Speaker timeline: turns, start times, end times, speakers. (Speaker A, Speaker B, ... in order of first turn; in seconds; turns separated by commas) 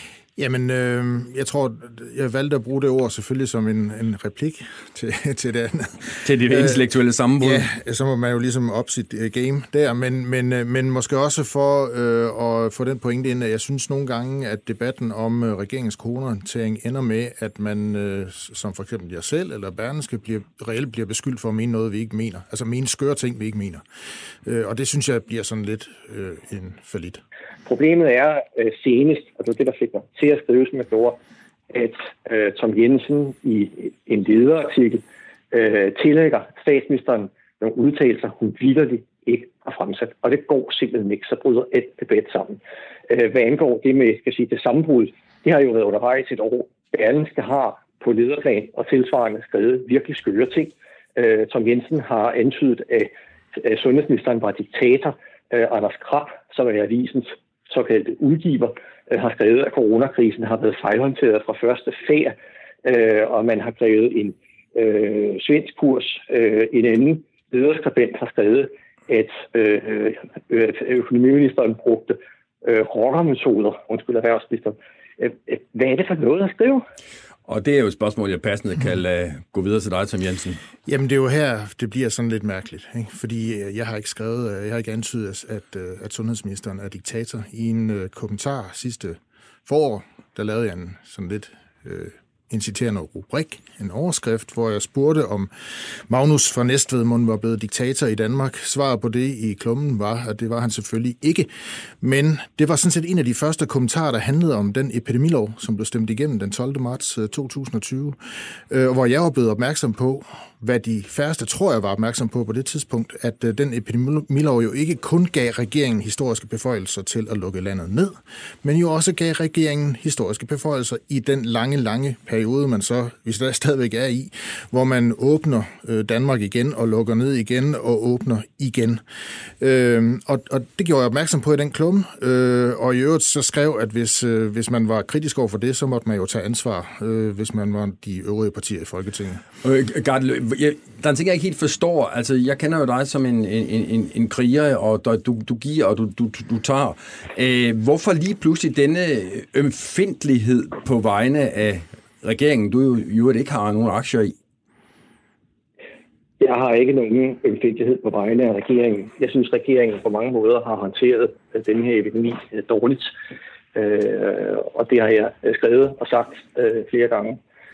Speaker A: 0.4-6.8, Speaker B: 6.2-7.7, Speaker A: 7.4-23.8, Speaker A: 24.4-27.2, Speaker C: 27.6-31.2, Speaker C: 31.7-76.8, Speaker B: 77.5-80.6, Speaker A: 80.8-101.5, Speaker A: 102.0-108.2, Speaker A: 108.7-129.0, Speaker A: 129.6-139.4, Speaker B: 139.6-154.3, Speaker C: 156.4-163.1, Speaker C: 163.7-167.4